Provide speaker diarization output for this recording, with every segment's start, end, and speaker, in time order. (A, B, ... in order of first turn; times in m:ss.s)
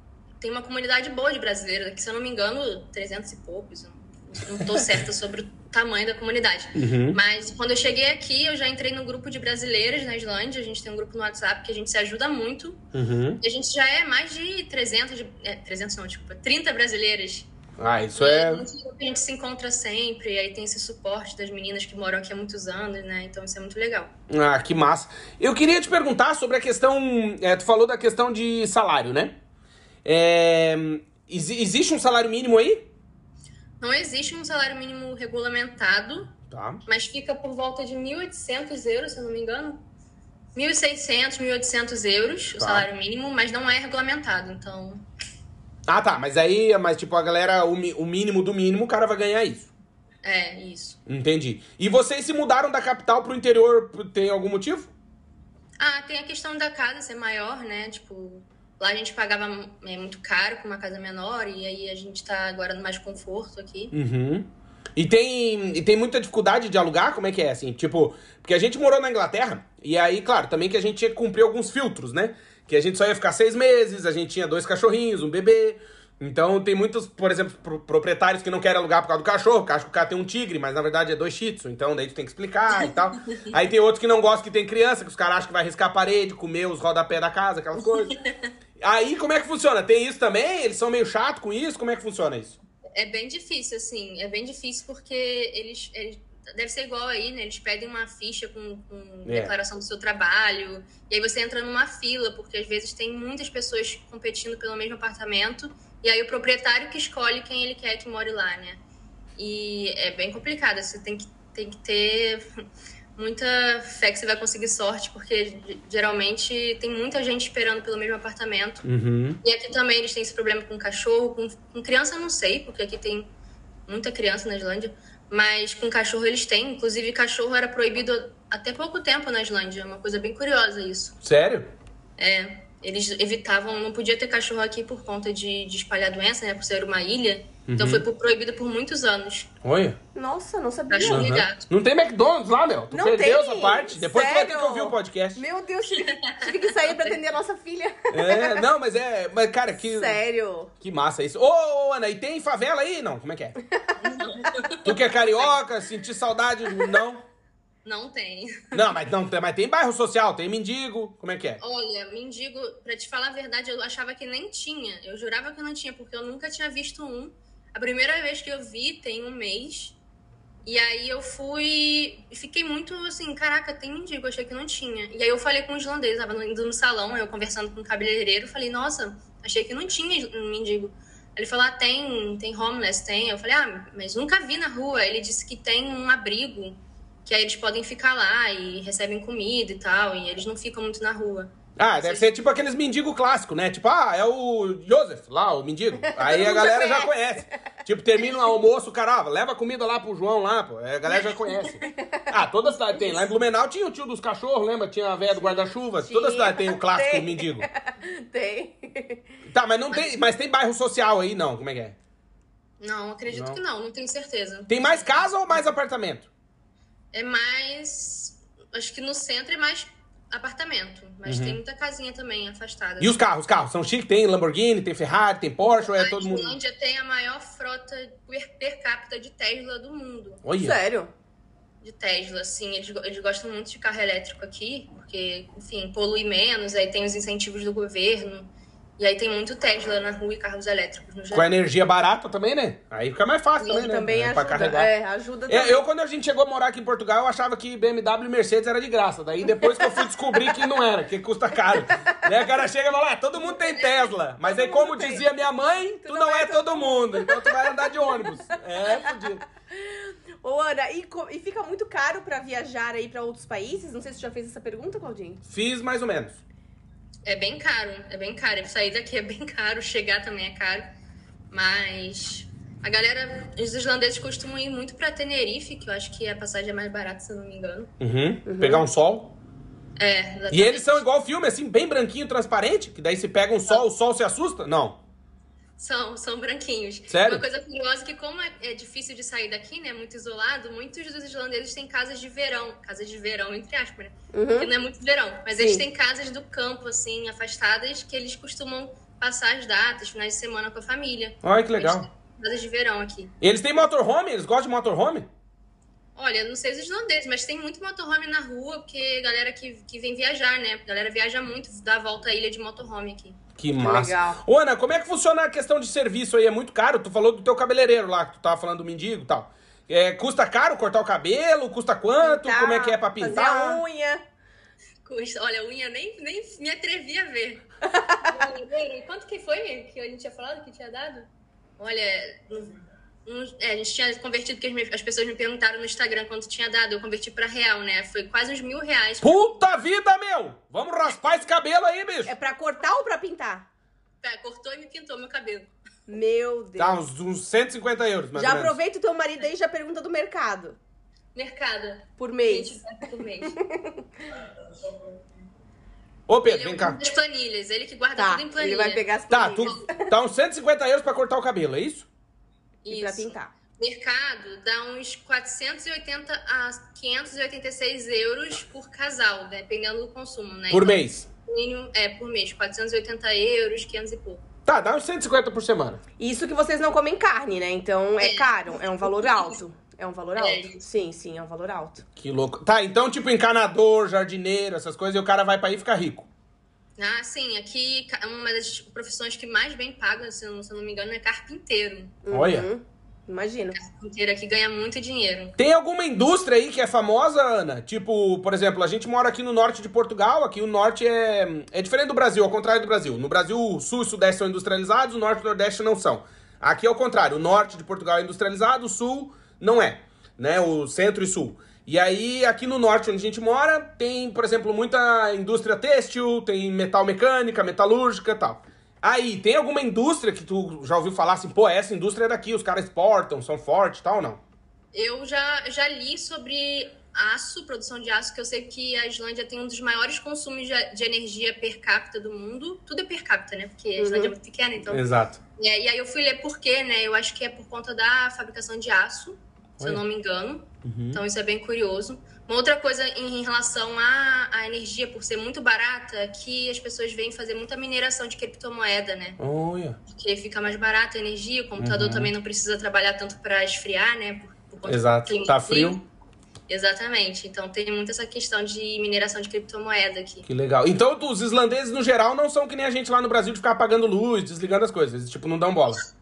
0:00.4-0:12.8 A
0:06.7-0:07.2 B
0:12.9-0:13.4 B
0:13.4-0:17.5 A
0:17.8-0:18.6 B
0:18.2-0:24.1 A
0:24.3-0:29.4 B
0:30.0-0:32.9 B
0:33.8-0:36.3 A
0:36.5-0:36.8 B
0:36.8-0:39.8 A
0:40.5-0:45.0 A
0:42.6-0:42.8 B
0:45.9-0:49.7 B
0:50.2-0:51.0 A
0:51.0-0:54.9 B
0:55.8-1:03.9 A
1:03.9-1:28.2 B
1:22.8-1:23.5 A
1:28.8-1:32.6 B
1:32.9-1:48.8 A
1:39.2-1:39.5 B
1:49.4-1:52.5 A
1:53.2-1:58.8 A
1:58.8-1:59.4 B
1:59.4-2:03.3 A
2:03.9-2:11.2 A
2:11.2-2:11.7 B
2:12.2-2:19.5 A
2:17.7-2:18.0 B
2:19.6-2:20.0 B
2:20.1-2:21.4 C
2:20.9-2:21.6 A
2:21.0-2:25.4 B
2:22.9-2:28.6 C
2:26.0-2:27.2 A
2:28.1-2:30.2 B
2:29.8-2:30.7 C
2:30.8-2:33.6 B
2:34.0-2:35.6 A
2:34.8-2:37.2 B
2:37.8-2:38.8 A
2:38.7-2:41.6 B
2:41.6-2:50.0 A
2:50.6-3:12.3 A
3:11.8-3:27.7 B
3:16.1-3:17.1 C
3:22.0-3:23.2 C
3:26.0-3:29.2 C
3:29.4-3:31.9 B
3:32.8-3:35.1 A
3:33.3-3:33.6 B
3:34.7-3:36.3 B
3:37.1-3:43.2 A
3:41.2-3:41.6 B
3:43.0-3:46.6 B
3:46.0-3:50.4 A
3:50.4-3:50.8 B
3:50.6-3:51.1 C
3:51.8-4:01.5 A
4:01.3-4:04.9 B
4:03.6-4:05.8 C
4:05.5-4:19.4 B
4:09.6-4:10.6 C
4:11.8-4:12.5 C
4:13.6-4:14.1 A
4:14.4-4:15.2 C
4:16.0-4:18.3 C
4:19.8-4:25.4 C
4:25.4-4:26.4 B
4:27.2-4:30.9 A
4:31.5-4:37.9 A
4:38.0-4:39.4 B
4:38.4-4:38.8 C
4:40.0-4:41.0 A
4:40.5-4:45.0 B
4:45.8-5:03.3 A
4:47.1-4:47.4 B
4:54.3-4:54.7 C
5:01.4-5:02.1 B
5:03.4-5:05.3 B
5:06.2-5:13.4 A
5:13.6-5:23.8 B
5:13.8-5:14.4 C
5:22.2-5:24.2 C
5:25.0-5:27.7 A
5:27.9-5:28.4 C
5:28.2-5:31.3 A
5:31.8-5:39.6 A
5:39.2-5:42.3 B
5:42.2-5:43.6 C
5:44.2-5:45.7 A
5:46.1-5:47.0 C
5:46.8-5:48.8 B
5:48.3-5:50.8 C
5:51.3-5:53.6 A
5:52.2-5:52.8 C
5:53.5-5:54.0 C
5:56.3-5:57.0 B
5:56.4-5:59.8 A
5:58.2-6:00.1 C
5:59.3-6:02.1 B
6:02.8-6:14.4 A
6:02.9-6:03.5 C
6:10.7-6:11.3 B
6:14.6-6:16.0 B
6:16.2-6:22.0 C
6:18.2-6:19.5 A
6:20.4-6:20.8 A
6:22.2-6:26.3 B
6:27.0-6:32.2 A
6:32.2-6:33.8 C
6:32.3-6:32.7 B
6:33.8-6:35.5 A
6:35.6-7:04.4 B
7:04.9-7:15.0 A
7:14.0-7:14.3 C
7:14.9-7:15.4 B
7:15.6-7:29.4 A
7:20.8-7:21.2 B
7:29.4-7:30.0 B
7:30.0-7:36.0 A
7:31.8-7:32.3 B
7:34.8-7:36.0 B
7:36.7-7:40.4 A
7:40.4-7:46.0 B